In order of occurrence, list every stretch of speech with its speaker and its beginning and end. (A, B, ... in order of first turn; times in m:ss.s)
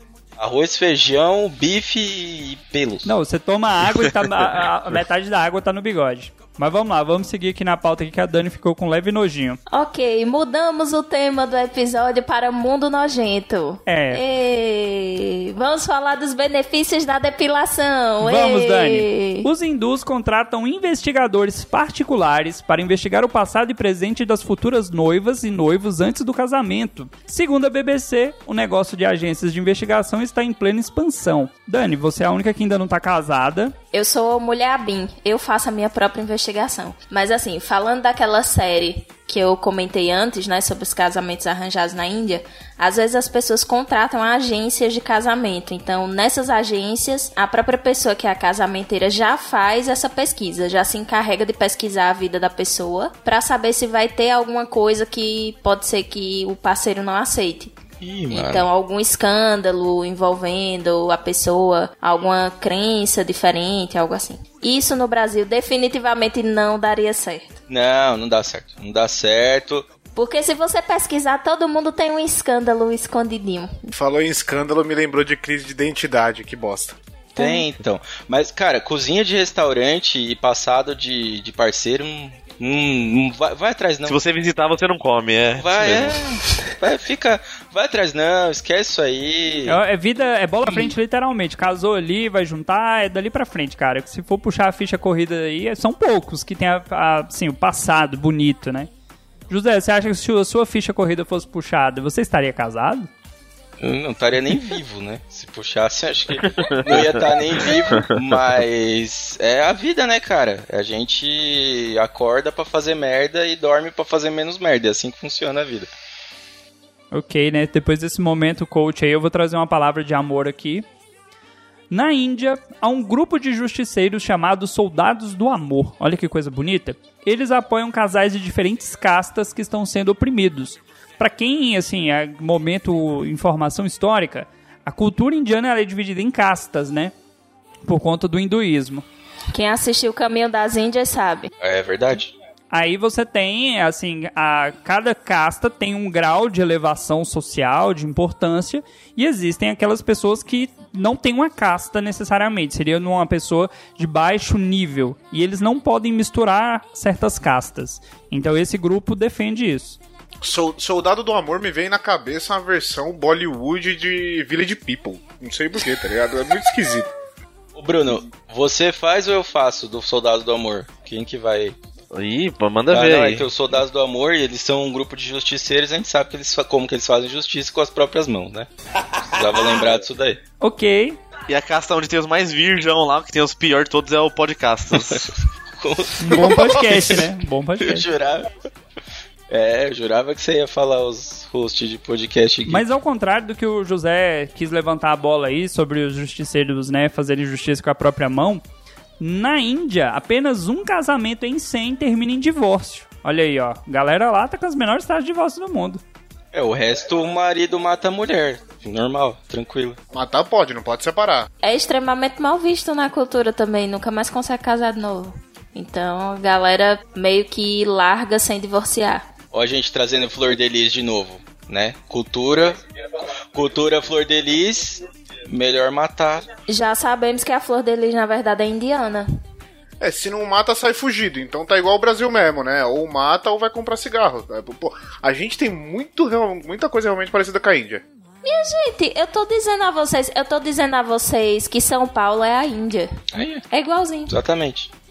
0:00.4-0:03.1 A
0:03.1-0:09.6 B
0:09.7-0:19.5 C
0:13.9-0:14.2 B
0:18.2-0:33.8 B
0:33.9-0:57.8 C
0:58.0-0:58.7 A
0:58.3-1:07.6 C
1:07.7-1:09.8 A
1:10.2-1:13.9 C
1:13.9-1:17.0 D
1:17.4-1:24.2 A
1:17.4-1:17.6 C
1:24.0-1:26.2 E
1:25.6-1:29.8 A
1:29.7-1:38.9 B
1:39.5-1:43.1 B
1:43.8-1:55.9 A
1:46.4-1:48.2 E
1:57.1-2:00.8 B
2:01.9-2:17.1 B
2:17.8-2:19.0 B
2:19.5-2:21.5 C
2:21.6-2:22.3 A
2:22.7-2:40.0 B
2:40.4-2:47.1 D
2:47.8-2:51.8 A
2:52.1-2:53.5 E
2:52.9-2:58.7 A
2:59.2-3:00.4 A
3:00.6-3:01.2 B
3:01.5-3:05.3 E
3:04.9-3:05.3 A
3:05.8-3:07.3 A
3:06.2-3:08.0 B
3:07.8-3:08.5 A
3:09.5-3:12.8 A
3:12.7-3:18.6 B
3:19.2-3:26.0 B
3:26.5-3:30.0 A
3:30.1-3:31.5 D
3:31.6-3:39.3 C
3:39.5-3:46.5 A
3:46.7-3:49.3 C
3:50.0-3:58.0 D
3:58.4-4:03.1 C
4:03.3-4:03.6 A
4:03.7-4:04.3 C
4:04.3-4:04.9 A